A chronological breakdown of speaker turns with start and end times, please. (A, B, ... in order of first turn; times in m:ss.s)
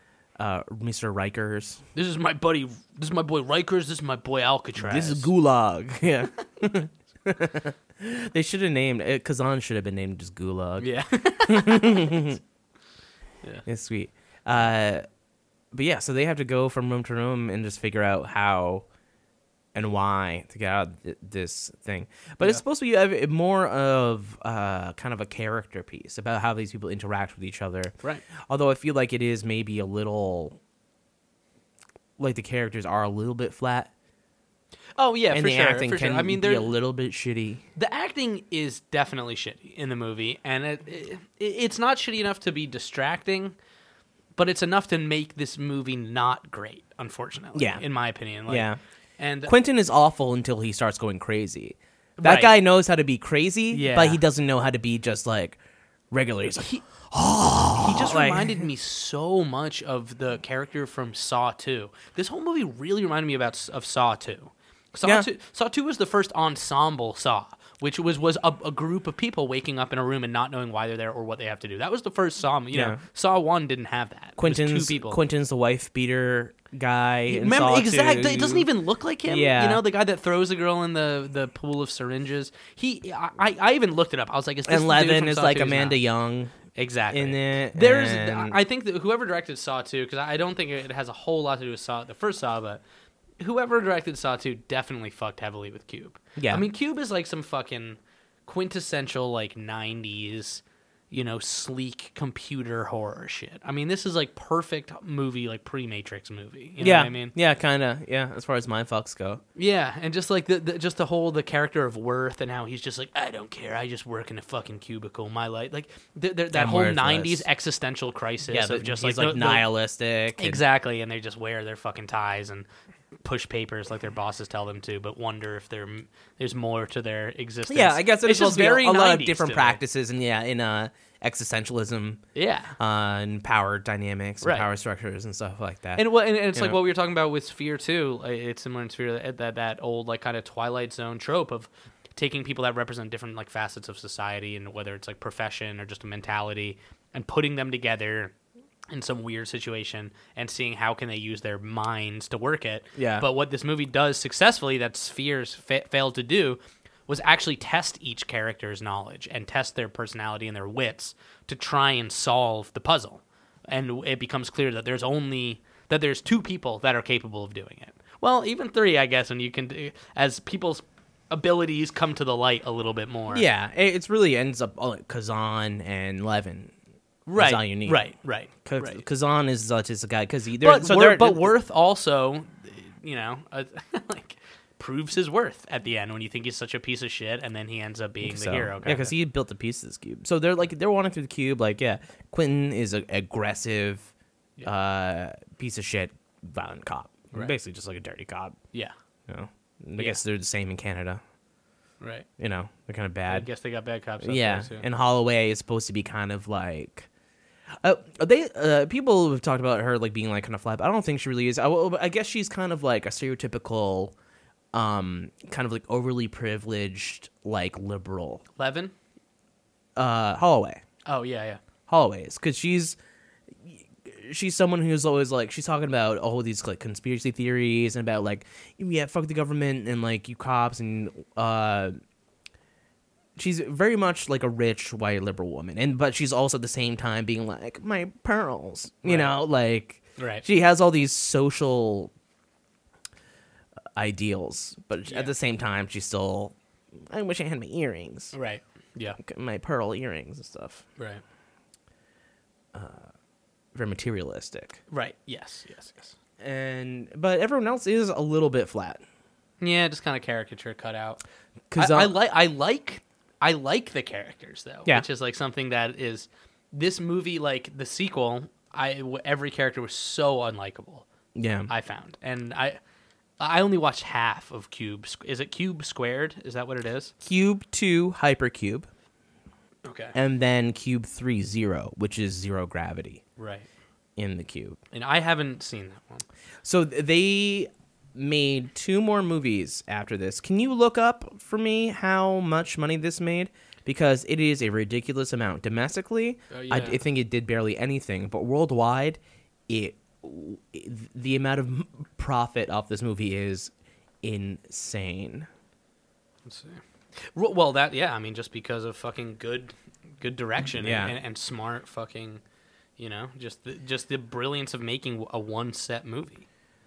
0:00.4-0:01.8 A
0:02.0-0:05.3 B
0:04.8-0:12.4 A
0:10.8-0:12.3 B
0:13.7-0:15.0 A
0:15.7-0:18.9 A
0:19.7-0:30.6 A
0:32.2-0:33.9 A
0:35.0-0:36.7 B
0:35.3-0:37.6 A
0:37.8-0:43.6 B
0:44.4-0:49.6 B
0:47.6-0:47.9 A
0:48.5-0:48.8 A
0:49.5-0:55.6 A
0:52.2-0:52.5 B
0:53.7-0:54.2 B
0:56.1-0:58.6 A
0:57.8-1:15.2 B
1:12.7-1:13.0 A
1:14.4-1:18.7 A
1:17.3-1:26.0 B
1:19.2-1:19.8 A
1:24.7-1:26.6 A
1:26.8-1:32.8 B
1:27.1-1:28.6 A
1:33.4-1:47.3 B
1:36.4-1:36.6 A
1:46.8-1:49.4 A
1:49.6-1:59.7 B
1:56.5-1:57.5 A
1:58.5-2:00.6 A
2:00.4-2:02.7 B
2:03.2-2:09.8 B
2:07.7-2:16.8 A
2:12.4-2:12.8 B
2:14.4-2:14.7 B
2:16.0-2:28.3 B
2:28.9-2:53.5 B
2:33.0-2:33.3 A
2:53.3-2:56.7 A
2:57.3-2:59.0 B
2:57.4-3:01.5 A
3:00.6-3:09.1 B
3:08.2-3:14.1 A
3:14.6-3:18.6 A
3:19.3-3:21.2 A
3:22.0-3:22.3 B
3:22.4-3:23.5 A
3:23.3-3:24.9 B
3:24.2-3:27.1 A
3:27.8-3:34.1 A
3:34.7-3:38.4 A
3:38.6-3:38.9 B
3:40.0-3:40.8 A
3:41.1-3:41.6 B
3:41.9-3:43.0 A
3:43.6-3:52.0 A
3:53.4-4:02.1 A
3:59.0-3:59.4 B
4:00.2-4:00.4 B
4:04.0-4:08.4 A
4:05.1-4:05.3 B
4:08.3-4:09.2 B
4:09.2-4:10.9 A
4:12.7-4:13.1 A
4:13.7-4:14.8 A
4:14.9-4:16.2 B
4:16.4-4:19.0 A
4:19.6-4:21.2 B
4:21.7-4:22.1 A
4:21.8-4:31.1 B
4:31.4-4:31.7 A
4:31.7-4:32.8 B
4:33.4-4:37.1 B
4:37.2-4:38.9 A
4:39.8-4:40.2 B
4:40.2-4:43.2 A
4:43.4-4:43.7 B
4:44.2-4:44.8 A
4:44.9-4:46.2 B
4:46.6-5:03.7 A
4:56.5-4:57.0 B
5:04.2-5:05.5 A
5:06.4-5:12.4 B
5:10.8-5:11.2 A
5:13.0-5:16.5 B